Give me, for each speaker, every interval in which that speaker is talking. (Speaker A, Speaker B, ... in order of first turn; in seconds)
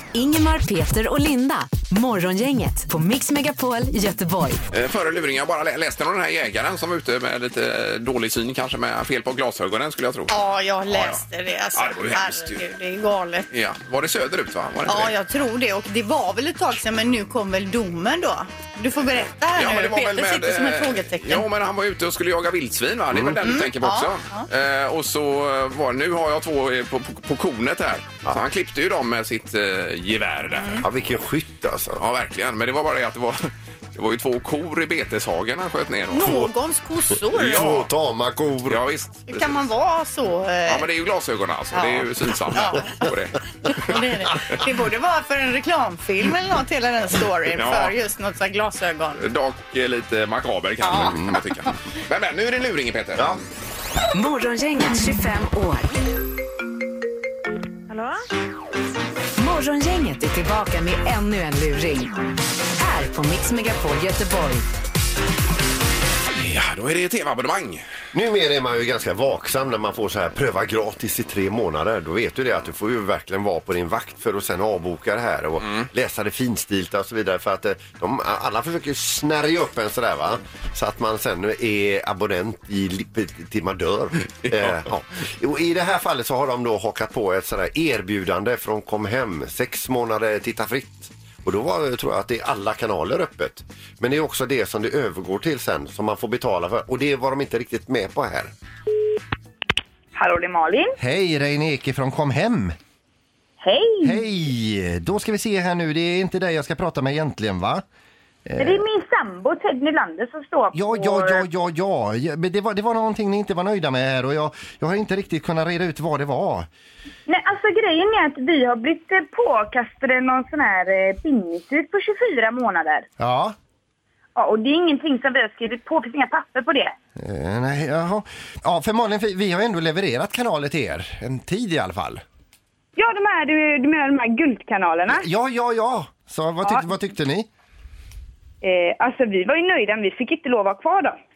Speaker A: 0.1-4.6, 54.1-55.9, 59.4-62.1, 62.8-64.7
Speaker B: 4.7-10.3, 10.9-11.2, 11.8-12.6, 13.5-15.1, 19.6-30.9, 32.0-36.5, 37.4-37.9, 38.7-39.6, 40.7-44.5, 47.5-47.9, 49.2-53.4, 66.3-67.8, 75.6-75.9, 84.5-84.8
Speaker C: 10.3-13.5, 14.9-21.4, 23.4-24.5, 30.5-30.8, 36.1-37.7, 39.3-40.9, 41.7-43.0, 43.7-49.2, 50.8-51.1
Speaker D: 23.1-23.4, 30.8-32.0, 37.3-38.8, 51.0-51.3, 68.1-98.5
Speaker E: 57.9-58.1, 100.2-101.0, 103.6-104.2, 108.6-111.4, 117.3-123.1, 124.4-127.0, 133.0-135.2, 138.6-141.2
Speaker F: 101.0-102.8, 104.0-107.8, 108.5-108.8, 110.7-116.7, 123.2-123.5, 127.2-132.2, 135.1-137.5